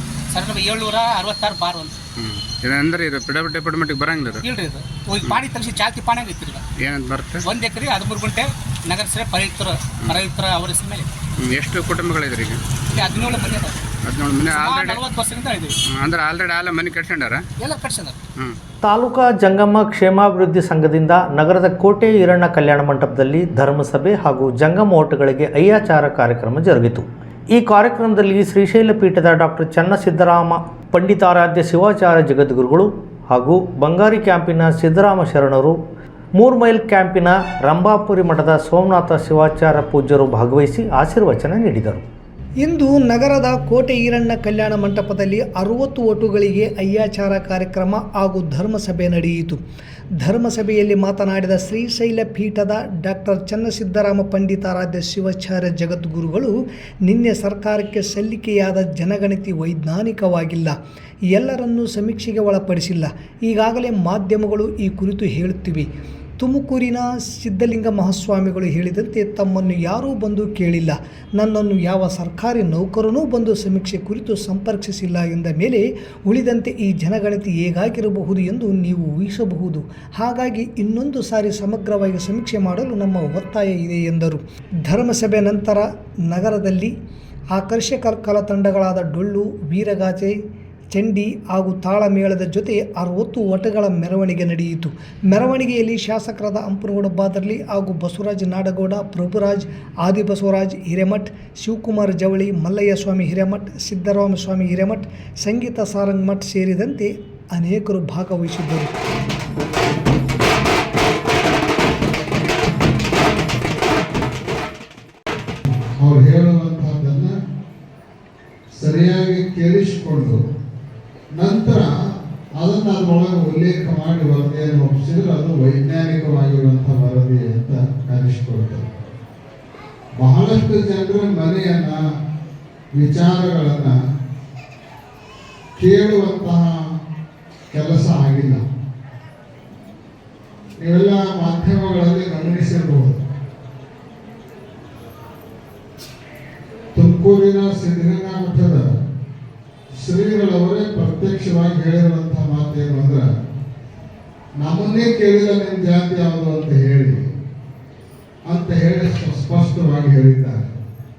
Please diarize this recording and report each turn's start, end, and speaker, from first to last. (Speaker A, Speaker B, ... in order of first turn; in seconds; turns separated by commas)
Speaker A: 0.3-1.9, Speaker B: 2.2-4.4, Speaker A: 4.4-6.6, Speaker B: 6.8-7.4, Speaker A: 7.4-11.1, Speaker B: 11.5-12.6, Speaker A: 12.9-13.8, Speaker B: 14.1-14.9, Speaker A: 14.5-15.7, Speaker B: 16.0-17.4, Speaker A: 17.6-18.2, Speaker C: 18.8-35.8, Speaker C: 36.4-42.0, Speaker D: 42.6-49.6, Speaker D: 50.2-60.7, Speaker D: 61.3-86.9, Speaker D: 87.5-90.3, Speaker D: 90.9-108.9, Speaker E: 116.0-117.3, Speaker E: 118.7-120.4, Speaker E: 121.3-121.9, Speaker E: 122.6-128.9, Speaker E: 130.2-132.0, Speaker E: 132.9-134.0, Speaker E: 135.8-136.9, Speaker E: 137.7-138.6, Speaker E: 140.8-143.2, Speaker E: 146.9-148.9, Speaker E: 149.9-153.3, Speaker E: 154.6-157.3, Speaker E: 158.5-160.7